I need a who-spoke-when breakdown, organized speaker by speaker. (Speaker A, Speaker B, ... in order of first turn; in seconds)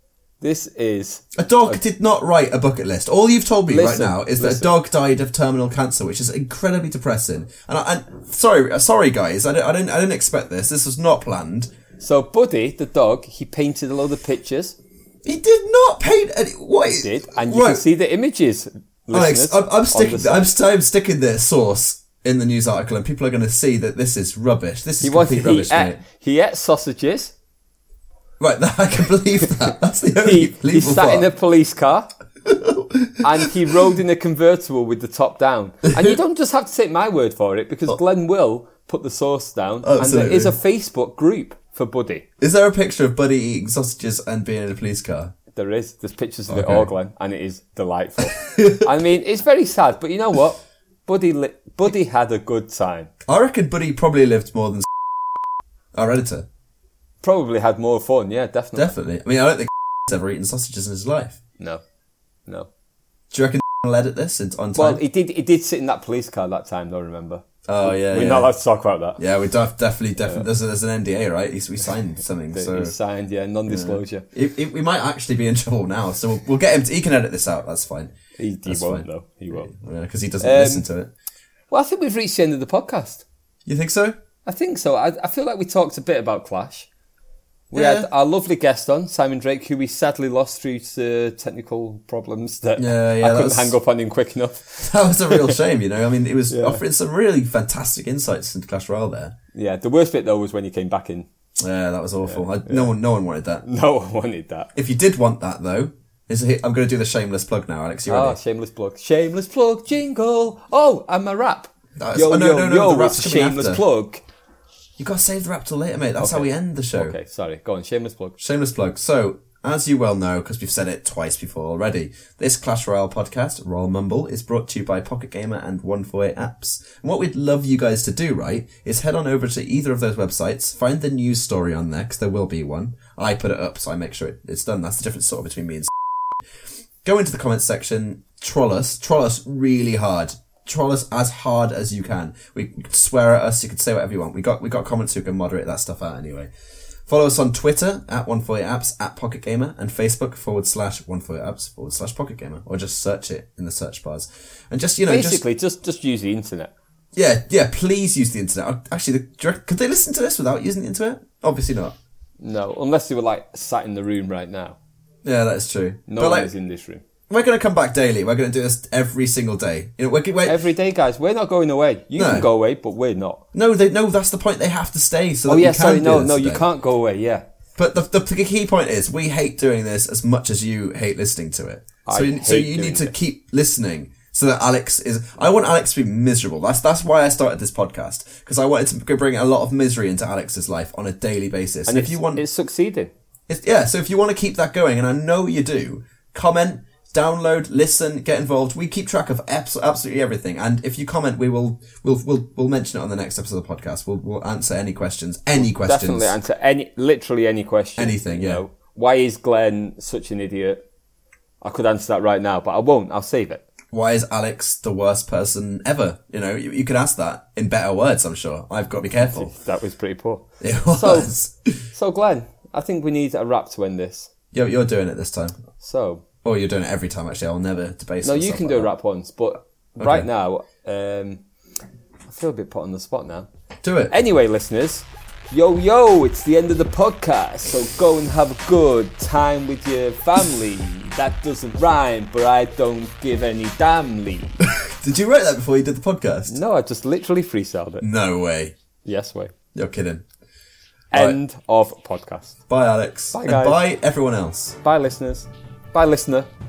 Speaker A: 0.4-1.8, 3.7-4.7, 12.0-14.8, 16.9-20.5, 25.0-27.3, 30.1-32.1, 33.2-42.2, 45.5-53.1, 57.2-58.9, 64.7-69.2, 70.2-70.5, 72.5-74.2, 78.4-79.7, 80.4-80.8, 81.7-83.2, 84.4-86.9, 87.7-95.5, 96.5-96.8, 99.5-101.3, 102.2-102.9, 103.6-104.7, 108.1-114.2, 116.2-118.3, 155.1-156.7, 162.4-164.8, 166.1-167.0, 170.4-173.4, 175.4-177.4, 182.1-183.1, 191.9-193.1, 205.6-210.8, 211.6-213.6, 219.2-221.3, 221.9-224.3, 225.8-226.2, 228.2-231.4, 232.3-233.5, 234.1-244.5, 246.5-248.0, 249.0-249.5, 251.1-252.6, 253.3-253.8, 254.8-256.5
Speaker B: 1.3-11.7, 15.2-17.9, 19.1-26.0, 28.4-31.3, 32.4-33.5, 39.8-40.5, 42.4-45.3, 46.5-46.9, 48.6-48.8, 53.3-54.9, 55.9-56.5, 58.8-61.4, 63.3-65.0, 67.7-68.5, 69.2-72.9, 73.7-78.1, 78.7-81.1, 83.7-84.2, 87.7-88.1, 92.8-93.8, 94.8-99.3, 101.6-103.6, 104.7-108.4, 112.0-113.8, 115.0-117.2, 118.4-135.9, 137.0-146.5, 147.1-155.4, 157.1-161.9, 165.2-166.5, 167.3-170.6, 172.1-172.5, 173.5-176.6, 177.8-192.4, 193.5-206.4, 208.0-208.6, 213.9-219.5, 220.6-221.7, 224.5-225.6, 226.4-228.9, 230.0-230.3, 233.8-234.1, 244.6-246.6, 248.0-248.7, 249.7-250.2, 251.1-251.4, 252.7-254.8